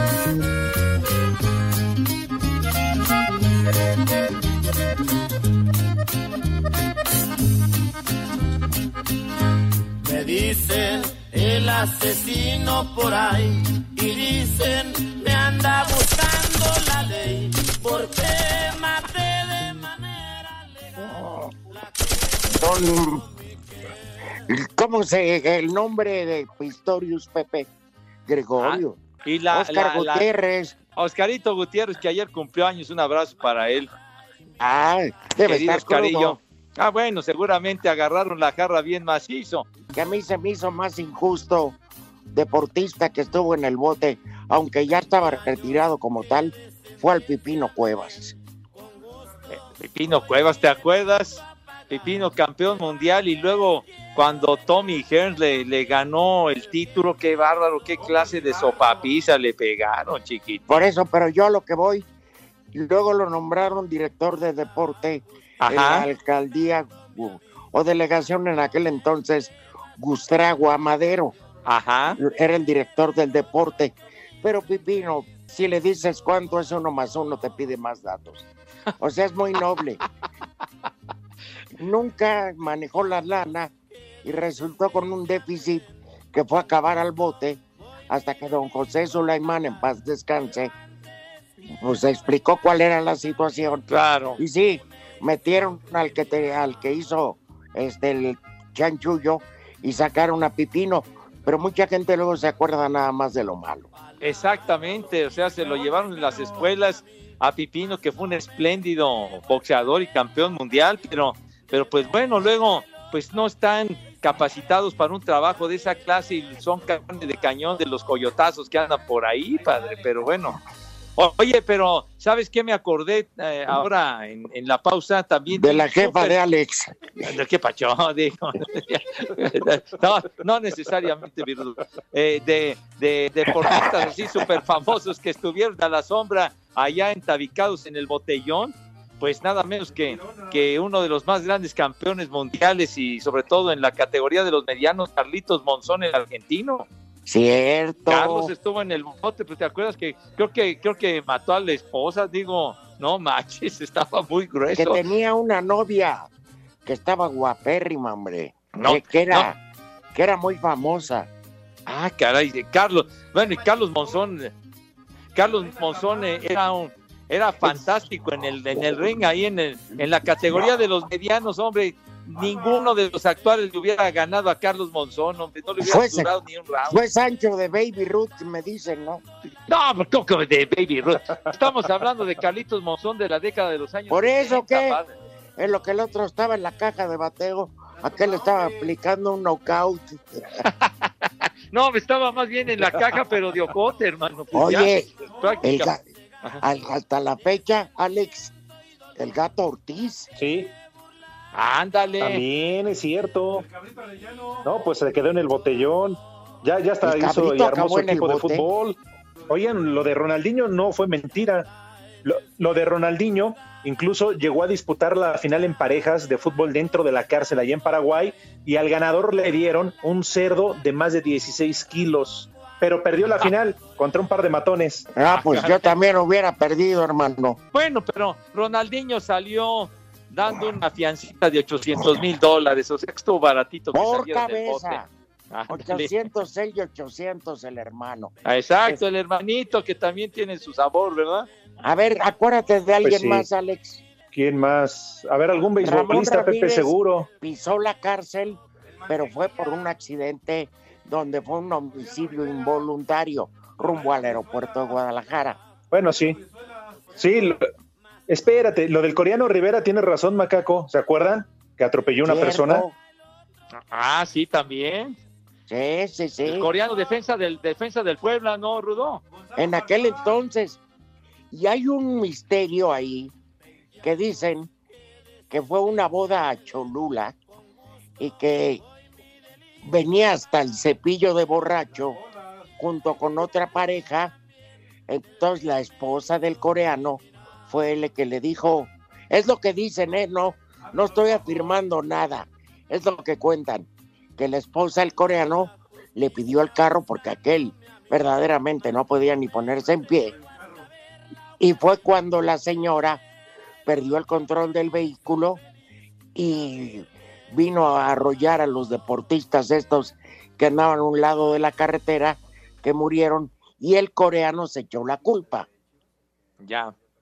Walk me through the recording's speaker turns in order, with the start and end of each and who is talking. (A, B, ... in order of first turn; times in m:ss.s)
0:10.0-0:20.4 A
0:21.0-0:21.5 B
0:22.5-0:23.2 B
0:24.5-0:27.7 B
0:28.3-0:29.0 B
0:28.6-0:30.3 C
0:29.5-0:30.8 B
0:31.0-0:33.9 C
0:34.6-0:36.4 B
0:35.4-0:39.7 C
0:39.9-0:41.8 B
0:42.3-0:48.4 B
0:49.5-1:00.6 C
1:00.7-1:02.1 B
1:02.7-1:11.4 B
1:05.6-1:06.1 C
1:11.7-1:12.2 C
1:12.2-1:18.5 B
1:19.0-1:20.0 B
1:21.8-1:23.7 B
1:24.2-1:30.7 B
1:31.8-1:33.9 B
1:33.9-1:34.4 C
1:34.4-1:43.9 B
1:44.2-2:00.6 C
2:01.2-2:06.4 C
2:05.5-2:07.1 B
2:07.2-2:26.9 C
2:27.3-2:28.5 B
2:28.1-2:35.0 C
2:34.7-2:36.3 B
2:36.8-2:39.6 B
2:38.8-2:39.5 C
2:40.1-2:41.3 B
2:41.9-2:44.5 C
2:45.4-2:57.0 C
2:55.8-2:56.3 B
2:56.9-2:59.2 B
2:59.7-3:05.2 C
3:04.1-3:05.0 B
3:05.6-3:10.6 B
3:10.6-3:15.9 C
3:14.5-3:15.1 B
3:15.6-3:16.1 B
3:16.6-3:18.5 B
3:19.2-3:20.3 B
3:20.4-3:20.7 D
3:21.5-3:22.4 C
3:22.2-3:23.7 D
3:24.6-3:29.0 D
3:27.0-3:28.7 B
3:29.5-3:31.7 D
3:32.2-3:45.1 D
3:45.1-3:47.6 B
3:45.3-3:46.0 C
3:47.7-3:56.1 C
3:53.9-3:55.1 B
3:55.7-3:58.3 B
3:58.4-4:01.5 C
4:01.8-4:04.0 B
4:03.0-4:03.5 D
4:04.3-4:07.3 D
4:05.8-4:15.6 B
4:15.9-4:16.4 D
4:17.2-4:17.7 D
4:18.3-4:22.8 D
4:22.2-4:23.0 B
4:23.7-4:25.2 C
4:25.7-4:26.7 B
4:26.5-4:29.2 C
4:29.6-4:30.8 B
4:31.5-4:33.3 B
4:34.0-4:34.7 B
4:35.5-4:37.4 B
4:38.2-4:38.8 B
4:39.8-4:42.2 B
4:42.8-4:44.3 B
4:45.1-5:00.4 B
5:01.6-5:03.2 B
5:03.9-5:05.6 B
5:06.4-5:15.7 B
5:16.6-5:16.9 C